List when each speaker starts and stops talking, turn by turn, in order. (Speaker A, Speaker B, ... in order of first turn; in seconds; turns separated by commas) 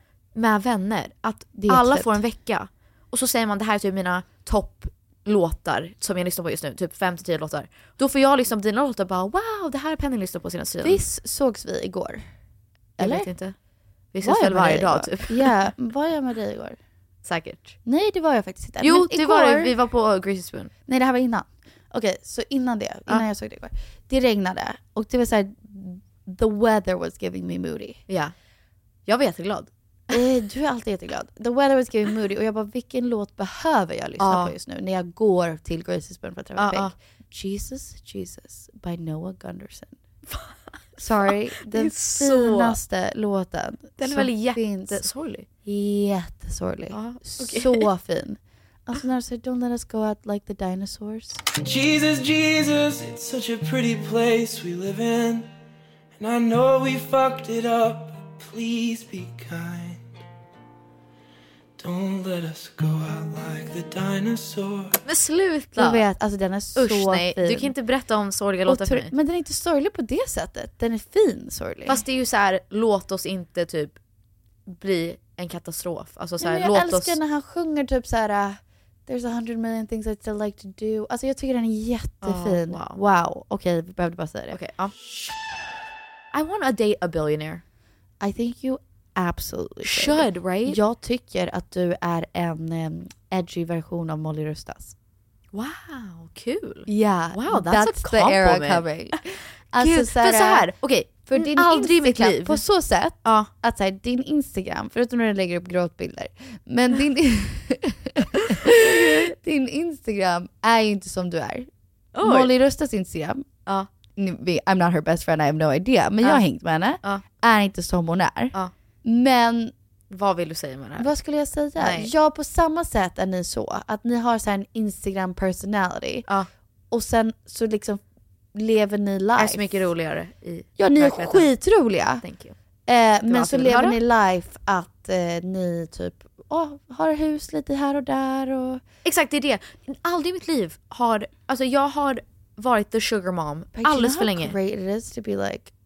Speaker A: 0.3-11.0, Speaker B: 1.6-2.2, Speaker B: 10.8-12.2, Speaker B: 13.0-13.3, Speaker A: 13.0-13.6, Speaker A: 14.1-15.6, Speaker B: 14.2-16.8, Speaker A: 17.2-17.8, Speaker B: 17.9-19.7, Speaker A: 18.8-20.7, Speaker B: 20.9-28.0, Speaker A: 28.1-28.3, Speaker A: 29.1-30.2, Speaker B: 30.1-40.0, Speaker A: 34.2-34.5, Speaker A: 36.6-36.9, Speaker A: 40.3-42.8, Speaker B: 41.0-45.0, Speaker A: 44.0-45.5, Speaker B: 45.6-51.4, Speaker A: 46.9-47.9, Speaker C: 51.6-55.5, Speaker C: 56.2-60.1, Speaker C: 61.8-65.0, Speaker A: 65.0-66.1, Speaker B: 65.8-67.7, Speaker A: 66.8-69.1, Speaker B: 68.7-72.0, Speaker A: 71.9-74.0, Speaker A: 74.7-77.2, Speaker B: 76.4-84.6, Speaker A: 82.2-83.0, Speaker A: 84.5-84.9, Speaker A: 86.3-87.6, Speaker B: 88.2-95.0, Speaker A: 89.8-90.8, Speaker A: 95.5-99.2, Speaker B: 96.9-111.7, Speaker A: 99.8-102.6, Speaker A: 103.2-103.5, Speaker A: 112.1-112.5, Speaker B: 112.2-113.5, Speaker B: 114.2-119.7, Speaker A: 120.1-121.1, Speaker B: 121.0-126.3, Speaker A: 121.8-122.1, Speaker B: 126.9-128.0, Speaker B: 128.5-129.9, Speaker A: 129.4-131.5, Speaker B: 130.8-132.2, Speaker A: 132.2-132.6, Speaker B: 132.9-138.8, Speaker A: 133.3-134.0, Speaker A: 139.0-144.6, Speaker B: 143.8-145.7